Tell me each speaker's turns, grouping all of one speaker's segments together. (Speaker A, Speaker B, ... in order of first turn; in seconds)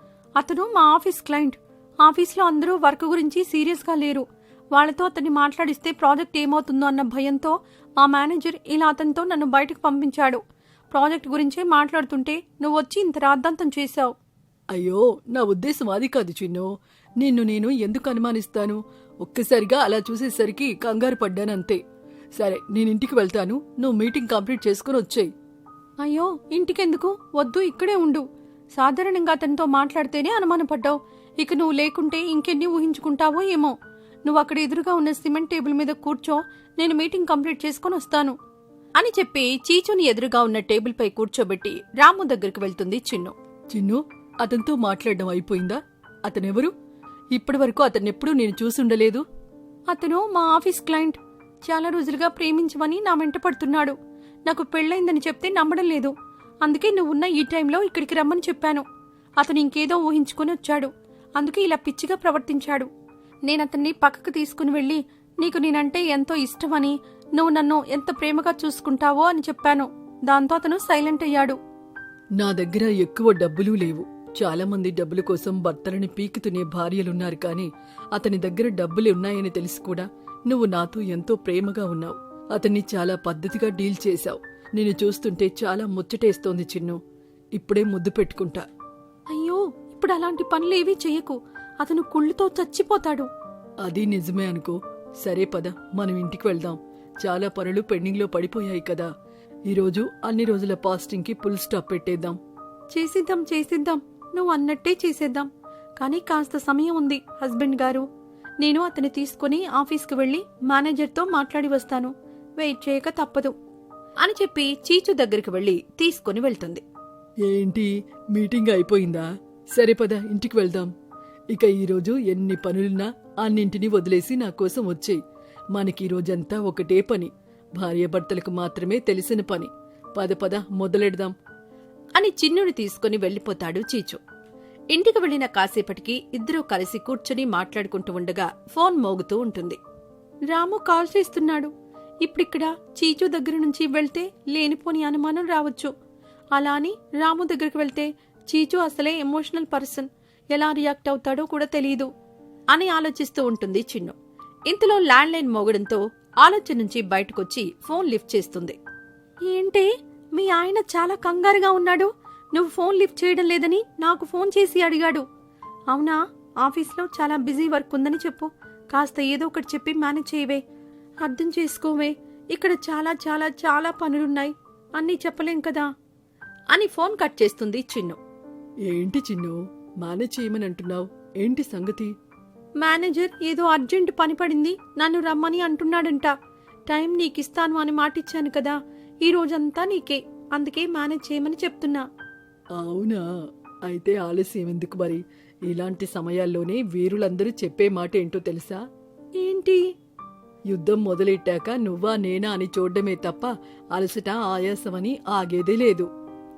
Speaker A: 0.4-14.1, 26.0-38.4, 39.0-43.4, 49.9-58.9, 59.4-62.9, 63.5-71.6, 89.3-93.3, 102.9-105.5, 106.0-108.1, 108.6-113.5, 114.2-116.8, 132.2-134.2, 134.9-139.8, 140.5-141.7, 142.2-145.9, 146.5-152.1, 152.7-154.2, 154.7-158.8, 159.5-165.2, 165.9-170.6, 171.2-175.9, 176.7-178.2, 182.8-186.3, 186.9-192.0, 199.4-199.9
Speaker B: 14.7-21.8, 22.4-25.3, 43.7-46.7, 47.3-49.2, 72.4-87.0, 87.6-88.7, 93.8-99.1, 99.7-102.4, 117.5-120.9, 121.5-125.2, 125.7-131.3, 178.9-182.1, 192.8-193.2, 193.8-198.8, 200.7-206.1